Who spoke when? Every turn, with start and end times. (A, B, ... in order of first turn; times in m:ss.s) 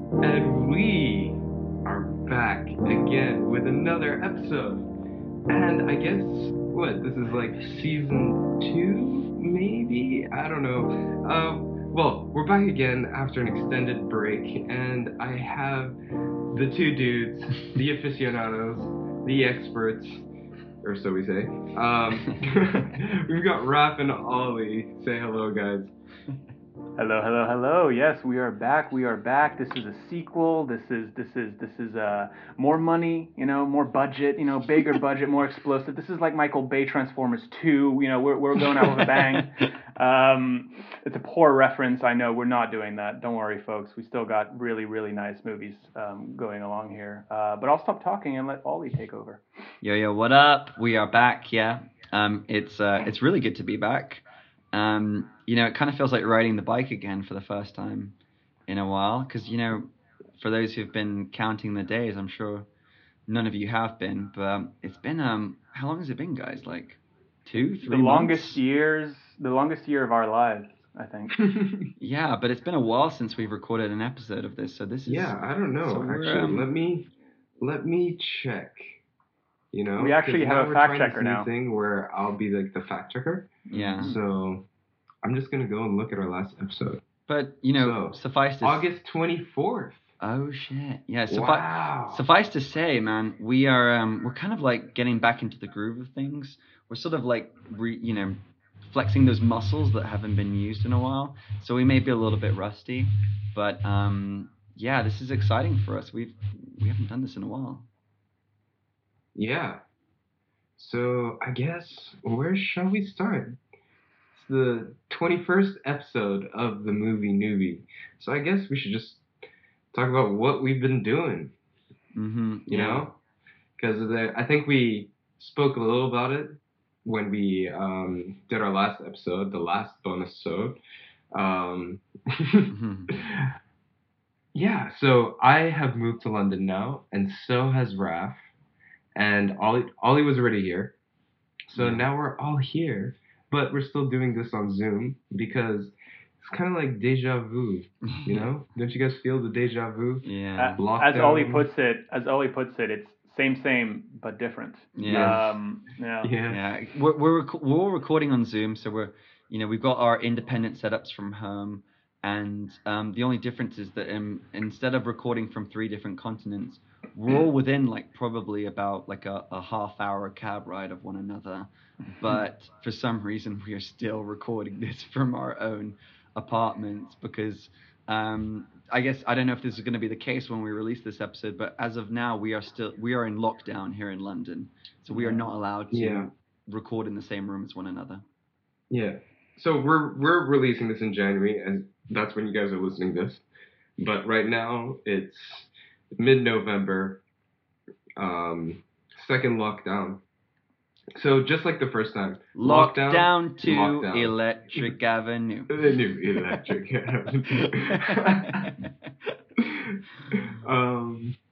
0:00.2-0:04.9 A
0:05.5-0:16.0 A
0:16.5-0:20.3 A
0:20.8-0:25.9 A
0:27.0-0:49.4 B
0:49.8-0:58.2 C
0:58.7-1:02.7 C
1:03.3-1:08.6 C
1:07.8-1:11.3 B
1:11.4-1:11.9 A
1:12.0-1:16.7 C
1:15.0-1:19.0 A
1:19.7-1:24.7 A
1:20.0-1:21.5 B
1:23.7-1:24.2 B
1:23.7-1:24.2 C
1:25.2-1:27.0 A
1:27.3-1:28.9 C
1:27.8-1:30.1 A
1:30.2-1:47.9 C
1:31.3-1:32.2 A
1:49.3-1:49.8 A
1:50.8-1:53.6 A
1:54.3-1:59.2 A
1:59.9-2:01.5 A
2:02.2-2:03.0 C
2:02.7-2:03.2 A
2:03.8-2:10.8 A
2:11.3-2:13.5 A
2:12.7-2:13.1 C
2:14.5-2:18.5 A
2:19.1-2:20.9 A
2:21.7-2:30.2 A
2:21.7-2:22.1 C
2:28.1-2:28.5 C
2:30.2-2:30.8 C
2:30.6-2:36.3 B
2:30.8-2:31.7 A
2:35.0-2:35.6 C
2:35.0-2:35.4 A
2:36.2-2:36.6 A
2:36.5-3:08.2 C
3:05.1-3:05.4 B
3:05.9-3:06.3 A
3:08.9-3:13.4 A
3:14.0-3:17.2 A
3:18.2-3:20.2 A
3:21.1-3:24.9 A
3:22.6-3:25.9 C
3:25.7-3:28.7 A
3:27.5-3:29.3 C
3:29.6-3:31.4 A